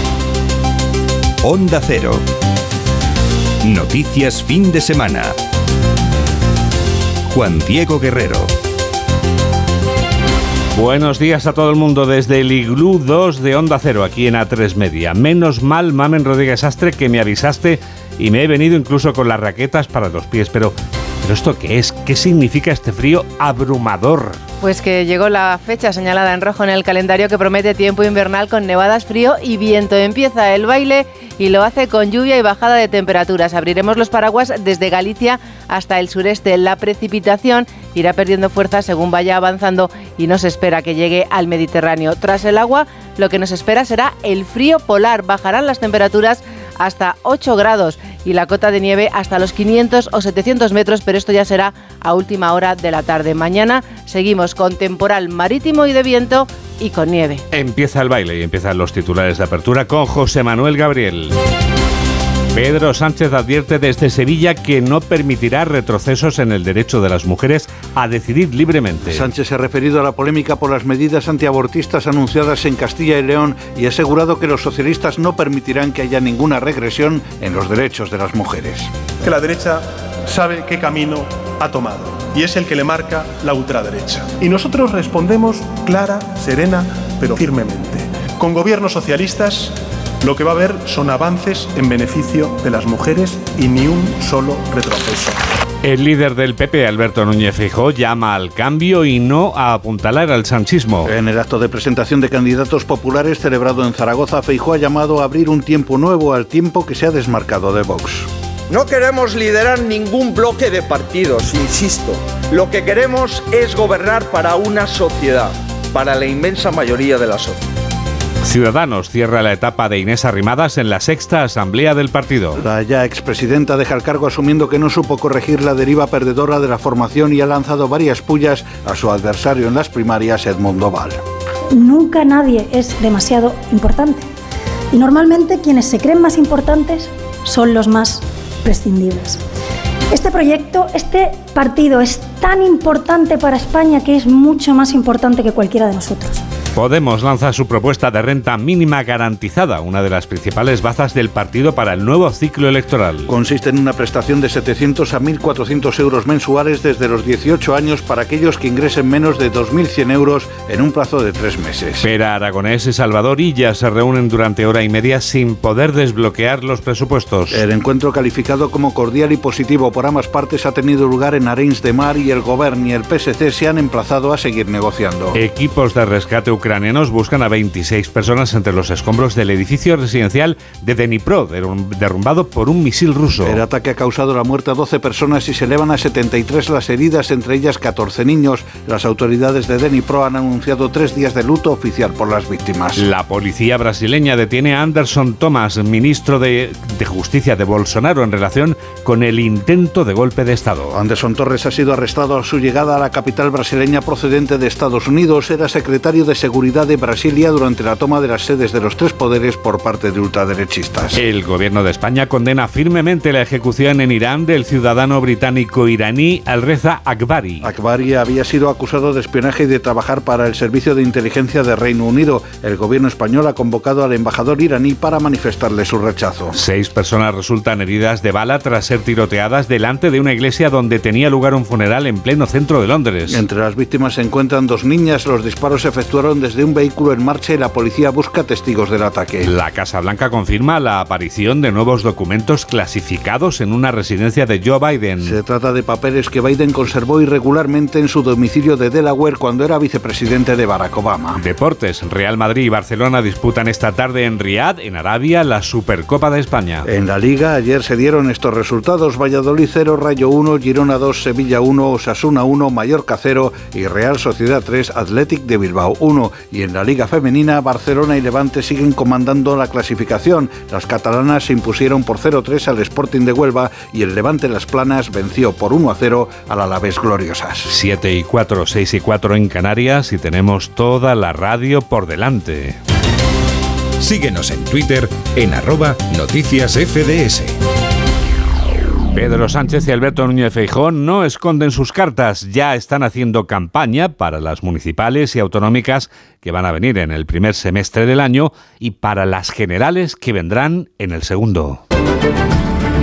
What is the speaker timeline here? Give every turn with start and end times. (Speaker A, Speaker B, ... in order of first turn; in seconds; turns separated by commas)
Speaker A: 1.4-2.2, Speaker A: 3.6-5.3, Speaker A: 7.3-8.5, Speaker B: 10.7-24.4, Speaker C: 24.6-57.4, Speaker B: 57.5-61.3, Speaker B: 62.5-69.2, Speaker D: 69.1-78.9, Speaker E: 79.2-95.4, Speaker B: 95.8-101.1, Speaker D: 101.0-108.3, Speaker F: 108.7-117.7, Speaker B: 118.4-122.6, Speaker D: 122.6-131.2, Speaker G: 131.7-134.3, Speaker G: 134.9-139.4, Speaker G: 140.1-146.4, Speaker B: 146.7-153.3, Speaker D: 153.3-162.1, Speaker B: 162.0-167.6, Speaker D: 167.5-175.4, Speaker B: 175.3-183.6, Speaker D: 183.4-193.0, Speaker B: 193.0-200.9, Speaker D: 200.9-211.2, Speaker B: 211.1-217.7, Speaker D: 217.6-226.5, Speaker B: 226.5-233.4, Speaker D: 233.3-239.5, Speaker B: 239.4-245.3, Speaker D: 245.2-251.4, Speaker B: 251.4-256.9, Speaker D: 256.9-277.7, Speaker B: 277.7-282.8, Speaker A: 284.0-287.6, Speaker B: 289.1-301.8